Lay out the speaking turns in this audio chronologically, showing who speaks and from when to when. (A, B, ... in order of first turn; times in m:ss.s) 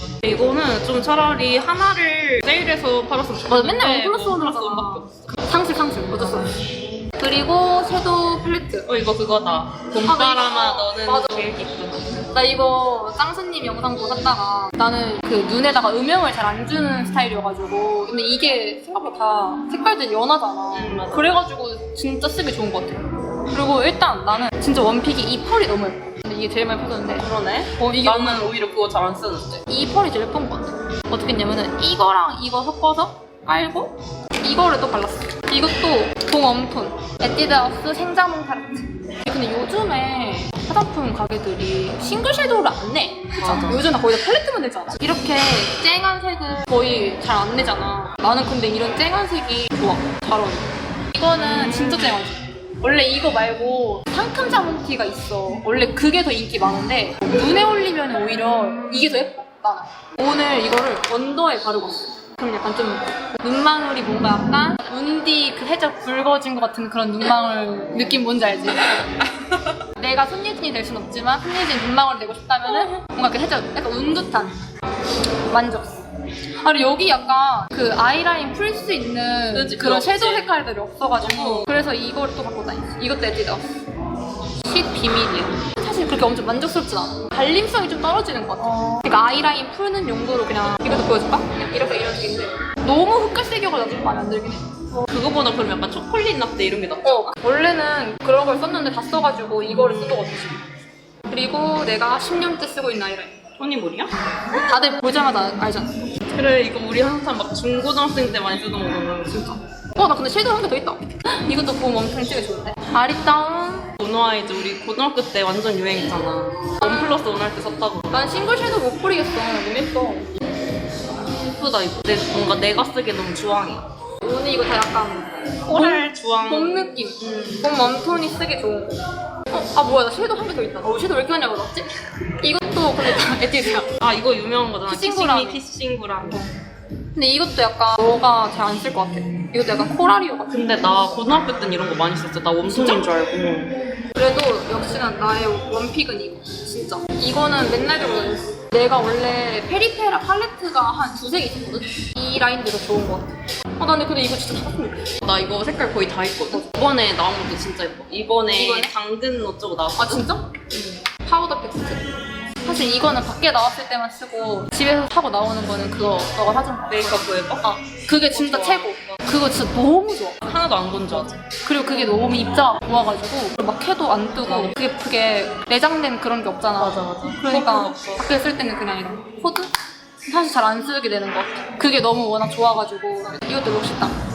0:00.2-0:06.5 A
0:03.5-0:06.5 B
0:07.2-0:08.9 B
0:08.9-0:12.3 A
0:10.0-0:11.6 B
0:12.3-0:28.6 B
0:20.7-0:21.3 A
0:27.1-0:29.6 A
0:29.7-1:09.1 B
0:43.4-0:43.8 A
0:51.3-0:52.2 A
0:58.9-0:59.2 A
1:08.7-1:09.8 A
1:10.0-1:14.6 B
1:12.6-1:13.0 A
1:15.5-1:16.0 B
1:16.6-1:23.6 B
1:19.5-1:20.5 A
1:21.2-1:21.7 A
1:24.6-1:34.7 B
1:28.6-1:29.0 A
1:35.0-1:37.3 A
1:37.0-1:40.6 B
1:39.7-1:40.3 A
1:41.3-1:43.4 B
1:43.6-1:44.1 A
1:44.5-1:46.1 B
1:46.3-1:49.4 A
1:49.3-1:53.9 B
1:54.0-1:58.2 A
1:56.8-1:57.2 B
1:58.1-2:00.3 B
2:01.2-2:03.8 A
2:04.2-2:13.9 B
2:05.7-2:07.8 A
2:14.0-2:16.5 A
2:14.9-2:15.6 B
2:17.1-2:20.5 B
2:20.5-2:23.8 A
2:22.6-2:23.1 B
2:24.2-2:35.1 B
2:35.2-2:40.3 A
2:38.5-2:38.9 B
2:40.0-2:42.0 B
2:42.6-2:59.7 B
2:46.9-2:47.7 A
2:48.2-2:49.4 A
2:50.4-2:51.4 A
2:54.4-2:54.8 A
2:56.8-2:58.3 A
3:00.3-3:04.1 B